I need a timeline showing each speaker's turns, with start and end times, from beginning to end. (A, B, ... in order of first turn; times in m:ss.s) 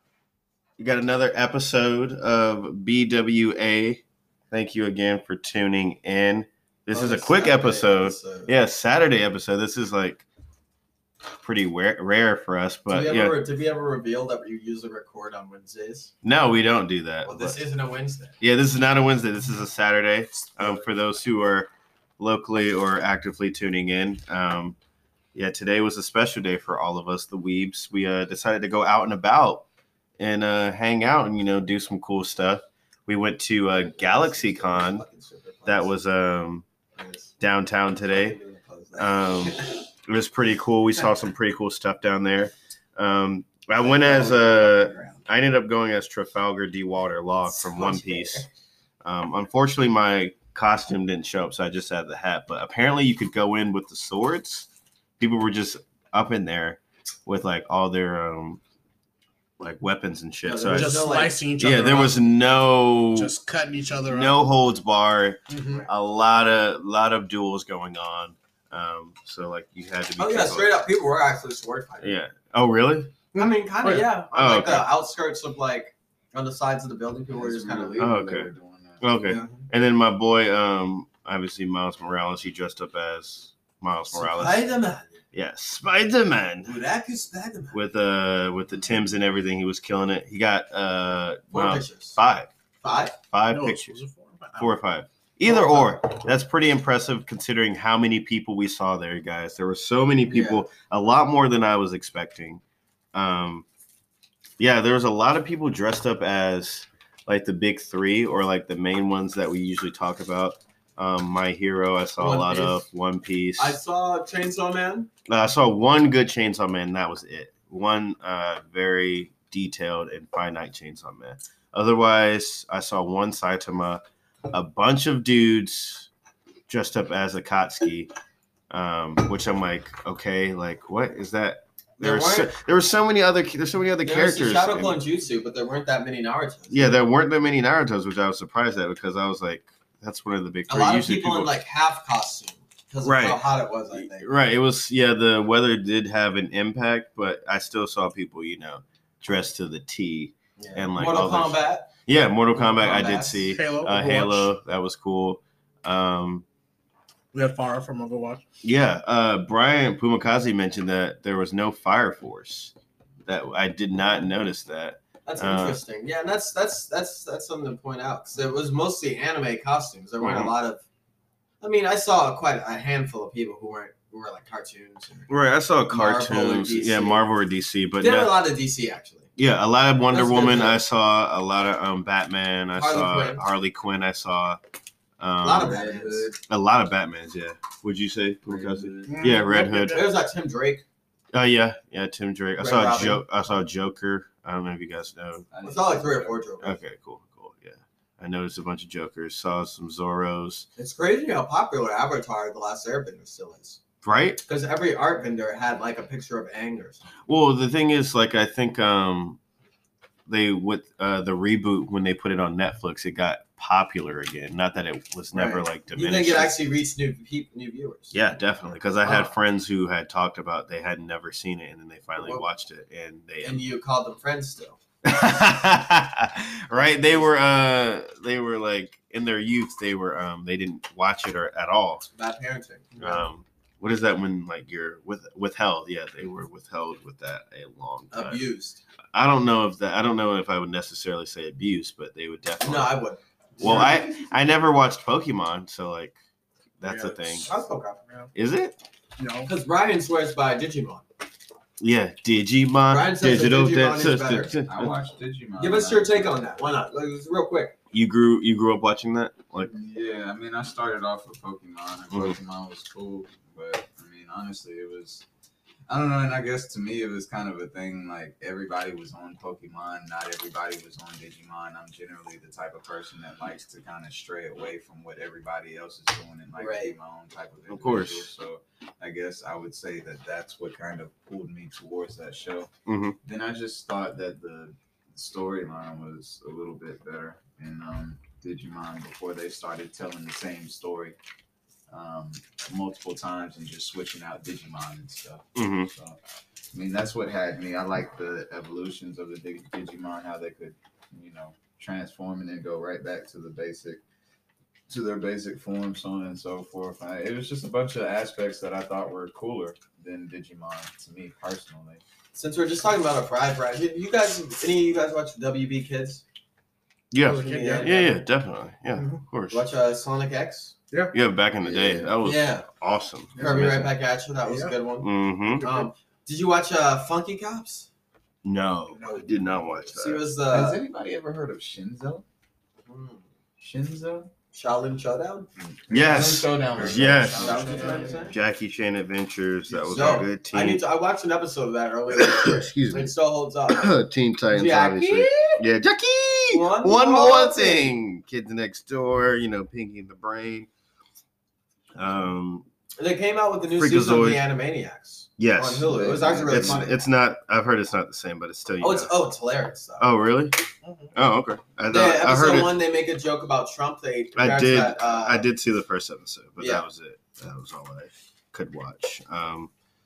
0:00.8-0:10.2 A
0:06.9-0:08.5 B
0:11.4-0:13.3 A
0:12.9-0:16.1 B
0:16.2-0:17.6 A
0:17.2-0:18.3 B
0:18.4-0:24.8 A
0:20.6-0:20.8 B
0:25.3-0:29.6 A
0:30.2-0:35.0 A
0:33.7-0:35.9 B
0:35.6-0:36.6 A
0:37.0-0:37.3 B
0:37.4-0:38.4 A
0:38.0-0:39.8 B
0:39.0-0:48.5 A
0:43.8-0:45.2 B
0:47.5-0:48.5 B
0:49.0-0:54.7 A
0:55.2-0:58.6 A
0:59.6-1:03.3 A
1:00.4-1:01.4 B
1:00.7-1:02.2 C
1:03.1-1:04.4 C
1:04.0-1:10.7 A
1:05.5-1:05.8 C
1:10.2-1:12.2 B
1:12.0-1:13.1 A
1:13.3-1:14.1 C
1:13.3-1:18.0 B
1:14.3-1:14.9 A
1:17.3-1:19.4 D
1:18.0-1:18.5 A
1:19.0-1:24.7 A
1:19.3-1:19.6 B
1:24.1-1:25.2 B
1:25.3-1:26.8 A
1:26.6-1:27.8 B
1:27.7-1:32.5 A
1:31.5-1:32.2 B
1:32.8-1:33.1 B
1:33.2-1:34.0 A
1:33.5-1:34.7 C
1:34.6-1:42.6 A
1:35.5-1:35.9 C
1:40.3-1:40.7 B
1:43.1-1:43.6 A
1:44.6-1:53.8 A
1:52.2-1:52.8 B
1:53.6-1:55.1 B
1:55.3-2:06.1 A
2:06.7-2:08.1 A
2:08.7-2:15.0 A
2:12.0-2:12.5 B
2:14.0-2:17.0 B
2:16.7-2:21.5 A
2:20.7-2:24.3 B
2:23.0-2:23.4 A
2:23.9-2:36.4 A
2:30.6-2:31.9 B
2:32.5-2:33.5 B
2:33.5-2:34.5 C
2:37.3-2:38.4 C
2:38.6-2:42.7 A
2:43.2-2:45.8 A
2:45.2-2:50.8 B
2:50.2-2:50.5 A
2:51.6-2:55.3 B
2:55.3-2:58.3 A
2:55.9-2:57.2 B
2:58.0-2:59.3 B
2:59.4-3:04.6 A
3:00.1-3:00.8 B
3:02.7-3:03.4 B
3:05.2-3:05.9 A
3:05.4-3:06.3 B
3:05.6-3:06.4 D
3:06.4-3:10.0 A
3:08.4-3:09.4 D
3:09.0-3:10.0 C
3:09.7-3:10.8 B
3:11.3-3:15.5 A
3:12.6-3:13.2 B
3:15.5-3:16.4 D
3:15.6-3:16.8 B
3:16.6-3:20.7 A
3:20.8-3:23.8 B
3:24.0-3:24.4 A
3:24.4-3:27.0 B
3:27.2-3:29.4 A
3:30.3-3:36.6 A
3:35.3-3:38.3 B
3:38.1-3:43.6 A
3:39.0-3:39.3 B
3:42.2-3:42.4 B
3:43.4-3:44.8 B
3:45.0-3:52.0 A
3:52.1-3:53.2 B
3:53.0-3:58.4 A
3:58.1-3:58.8 B
3:59.1-4:03.0 A
4:02.6-4:04.0 B
4:03.6-4:06.2 A
4:06.8-4:07.5 A
4:06.8-4:07.5 C
4:07.4-4:08.0 B
4:08.3-4:08.8 A
4:09.2-4:09.5 C
4:09.5-4:11.0 B
4:11.8-4:14.9 A
4:12.9-4:14.5 B
4:14.6-4:16.6 D
4:15.6-4:17.7 B
4:17.9-4:19.7 A
4:19.6-4:25.2 D
4:22.1-4:22.4 A
4:25.9-4:42.7 D
4:36.6-4:36.9 B
4:37.7-4:38.3 A
4:42.9-4:43.2 A
4:43.2-4:51.2 D
4:51.9-4:56.2 D
4:55.6-4:55.9 A
4:56.7-5:04.0 D
5:04.9-5:12.0 D
5:12.3-5:16.2 B
5:17.1-5:19.6 A
5:17.2-5:18.2 C
5:17.4-5:17.9 B
5:18.9-5:19.2 C
5:19.5-5:20.7 B
5:21.1-5:23.9 A
5:21.6-5:22.6 B
5:23.4-5:23.8 C
5:23.4-5:27.9 B
5:24.4-5:24.8 C
5:25.0-5:25.6 A
5:25.5-5:25.9 C
5:28.4-5:30.3 A
5:28.9-5:29.9 C
5:29.9-5:30.8 B
5:30.5-5:32.2 D
5:32.9-5:33.2 B
5:33.6-5:34.3 D
5:34.5-5:35.5 B
5:35.6-5:38.3 D
5:35.9-5:40.8 A
5:37.0-5:38.2 C
5:37.4-5:38.4 B
5:39.7-5:40.1 C
5:39.9-5:43.9 B
5:42.1-5:43.1 A
5:43.7-5:50.7 A
5:44.5-5:45.6 B
5:46.5-5:47.9 B
5:51.9-5:52.6 A
5:53.0-5:57.0 B
5:53.7-5:54.4 A
5:55.4-5:59.1 A
5:55.8-5:56.9 D
5:58.8-6:00.1 B
6:00.0-6:00.6 A
6:00.8-6:01.1 C
6:01.1-6:02.8 A
6:01.9-6:05.5 B
6:04.4-6:09.7 A
6:06.6-6:06.8 B